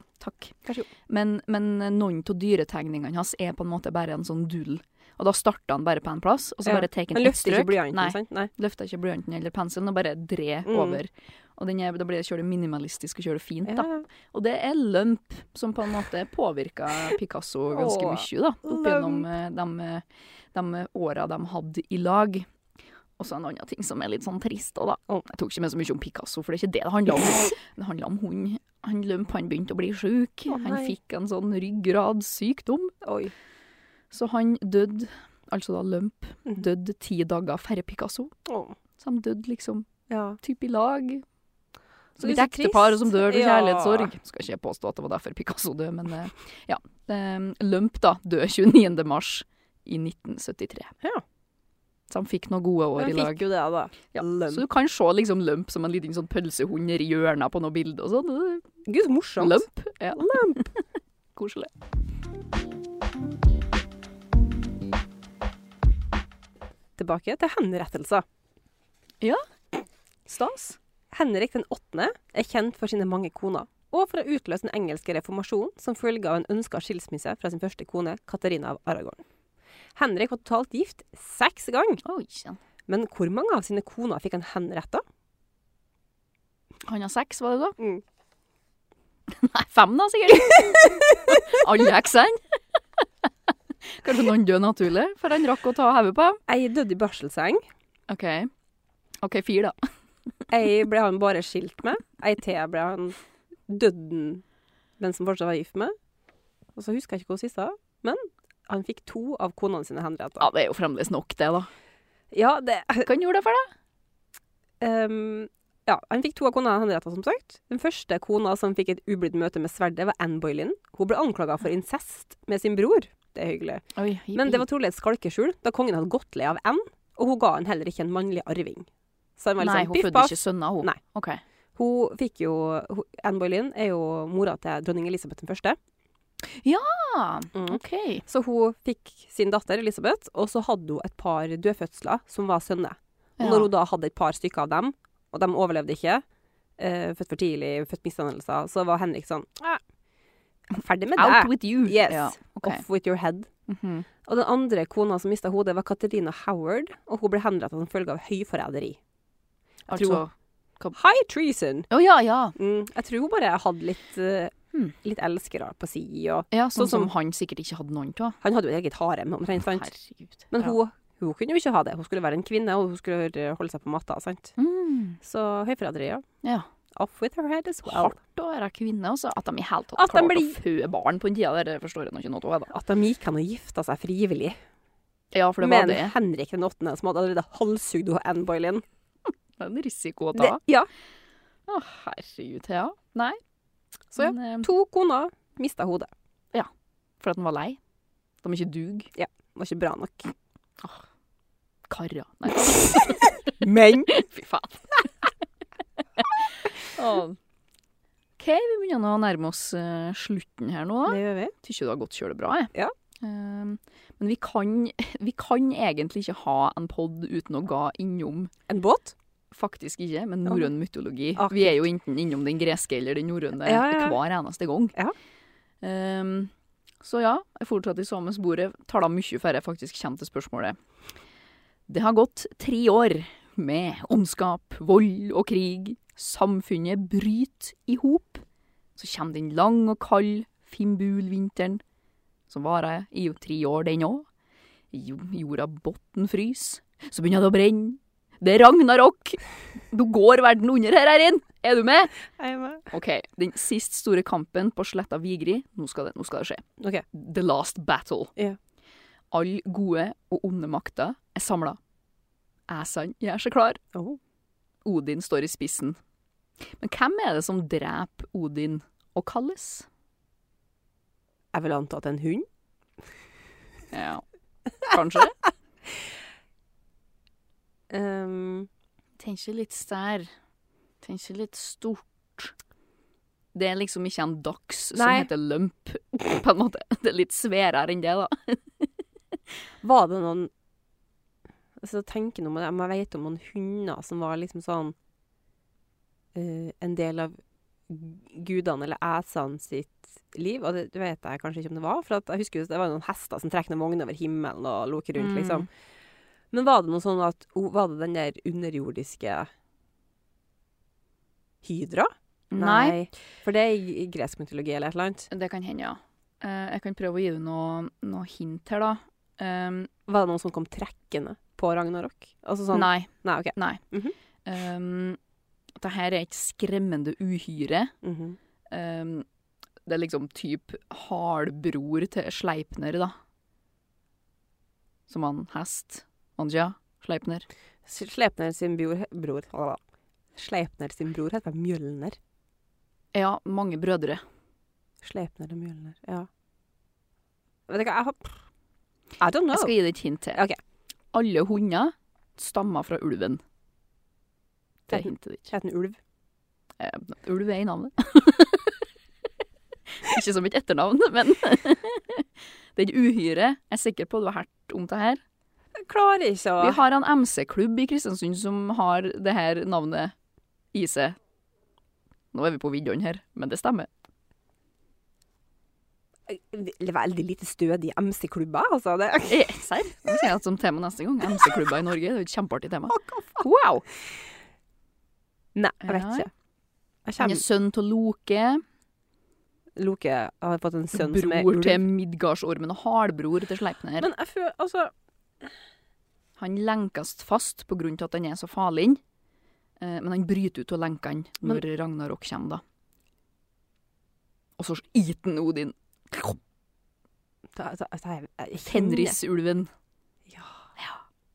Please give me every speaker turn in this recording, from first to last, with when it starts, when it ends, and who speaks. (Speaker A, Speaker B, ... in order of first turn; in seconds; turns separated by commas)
Speaker A: 0.2-0.6, Speaker A: 1.1-22.5, Speaker B: 6.6-8.5, Speaker B: 10.7-11.0, Speaker B: 13.7-14.0, Speaker B: 17.7-19.3, Speaker A: 23.2-33.0, Speaker B: 30.5-30.9, Speaker B: 33.0-33.3, Speaker A: 34.1-38.3, Speaker B: 38.5-38.8, Speaker A: 39.0-41.2, Speaker B: 40.1-40.4, Speaker B: 42.2-44.1, Speaker A: 42.2-50.9, Speaker A: 52.1-53.5, Speaker B: 53.0-54.6, Speaker A: 54.1-58.7, Speaker B: 58.9-59.7, Speaker A: 59.4-60.8, Speaker B: 60.2-60.6, Speaker A: 61.4-61.7, Speaker B: 67.0-68.2, Speaker A: 70.3-70.8, Speaker B: 71.1-79.2, Speaker B: 80.0-82.0, Speaker A: 82.0-82.6, Speaker B: 82.9-85.0, Speaker A: 86.9-87.8, Speaker A: 89.3-92.8, Speaker A: 93.9-96.4, Speaker B: 96.5-97.6, Speaker A: 98.1-98.5, Speaker A: 99.2-99.7, Speaker B: 100.5-104.4, Speaker B: 105.0-106.0, Speaker B: 106.7-110.5, Speaker A: 110.4-111.7, Speaker B: 112.3-113.1, Speaker A: 113.0-113.7, Speaker B: 114.8-131.0, Speaker A: 124.0-124.6, Speaker A: 129.6-131.4, Speaker B: 131.8-135.8, Speaker A: 136.6-138.2, Speaker B: 137.6-146.2, Speaker A: 143.4-143.7, Speaker B: 146.8-149.8, Speaker B: 150.7-153.5, Speaker A: 151.2-152.8, Speaker A: 153.7-154.1, Speaker B: 154.2-159.0, Speaker B: 159.9-160.2, Speaker A: 159.9-160.9, Speaker B: 160.9-161.9, Speaker A: 161.9-162.6, Speaker B: 162.6-167.1, Speaker A: 166.5-168.4, Speaker B: 168.4-169.9, Speaker A: 169.6-170.7, Speaker B: 170.5-174.5, Speaker A: 174.6-175.2, Speaker B: 175.2-176.2, Speaker A: 176.4-176.7, Speaker B: 176.9-178.2, Speaker A: 177.9-182.7, Speaker B: 180.0-180.6, Speaker B: 182.7-184.6, Speaker A: 185.3-186.2, Speaker B: 185.6-188.8, Speaker A: 189.6-190.6, Speaker B: 190.3-190.9, Speaker A: 191.7-193.4, Speaker B: 194.1-196.1, Speaker A: 194.2-194.7, Speaker A: 197.2-197.8, Speaker A: 198.4-199.1, Speaker B: 199.1-200.3, Speaker A: 201.9-205.1, Speaker B: 202.9-204.1, Speaker A: 206.4-207.4, Speaker A: 208.4-218.5, Speaker B: 211.1-211.5, Speaker B: 218.7-219.1, Speaker A: 219.5-224.9, Speaker B: 221.4-221.8, Speaker B: 223.6-224.2, Speaker A: 225.8-230.8, Speaker A: 231.9-238.4, Speaker A: 238.9-241.8, Speaker A: 242.5-244.3, Speaker A: 244.9-252.2, Speaker B: 252.4-252.9, Speaker A: 252.9-258.3, Speaker B: 256.8-257.1, Speaker A: 259.3-261.8, Speaker A: 262.7-263.8, Speaker B: 263.9-264.2, Speaker A: 264.9-266.0, Speaker A: 266.8-269.9, Speaker B: 271.5-272.5, Speaker A: 273.9-274.2, Speaker A: 274.8-275.4, Speaker B: 277.9-278.7, Speaker A: 279.2-280.3, Speaker A: 281.0-282.5, Speaker A: 283.5-288.9, Speaker B: 284.9-285.3, Speaker B: 289.8-290.5, Speaker B: 291.8-294.9, Speaker B: 296.3-297.4, Speaker B: 297.9-305.7, Speaker A: 305.2-305.7, Speaker B: 306.5-309.5, Speaker B: 311.6-315.3, Speaker A: 312.5-313.0, Speaker A: 315.3-319.9, Speaker B: 320.1-324.1, Speaker A: 322.7-323.8, Speaker A: 324.4-325.2, Speaker A: 325.8-327.9, Speaker B: 328.0-328.4, Speaker A: 328.7-329.3, Speaker A: 329.9-333.1, Speaker A: 335.1-337.5, Speaker B: 337.9-339.8, Speaker B: 340.4-342.2, Speaker A: 343.1-344.2, Speaker B: 345.0-346.3, Speaker B: 347.7-348.4, Speaker B: 349.2-349.7, Speaker A: 349.5-350.4, Speaker A: 351.1-353.4, Speaker A: 354.9-355.5, Speaker B: 354.9-356.0, Speaker A: 356.8-358.8, Speaker A: 359.9-365.2, Speaker B: 365.7-366.8, Speaker A: 366.6-370.1, Speaker A: 370.7-371.2, Speaker A: 372.3-373.9, Speaker B: 376.3-379.4, Speaker A: 379.3-383.9, Speaker B: 382.9-383.4, Speaker B: 385.6-386.3, Speaker A: 385.8-386.3, Speaker B: 387.1-387.4, Speaker A: 387.2-388.6, Speaker B: 389.8-391.9, Speaker A: 390.9-394.1, Speaker B: 394.0-395.5, Speaker A: 396.4-399.0, Speaker A: 399.8-402.6, Speaker A: 404.6-406.4, Speaker B: 407.5-409.2, Speaker A: 408.7-409.7, Speaker B: 410.3-410.6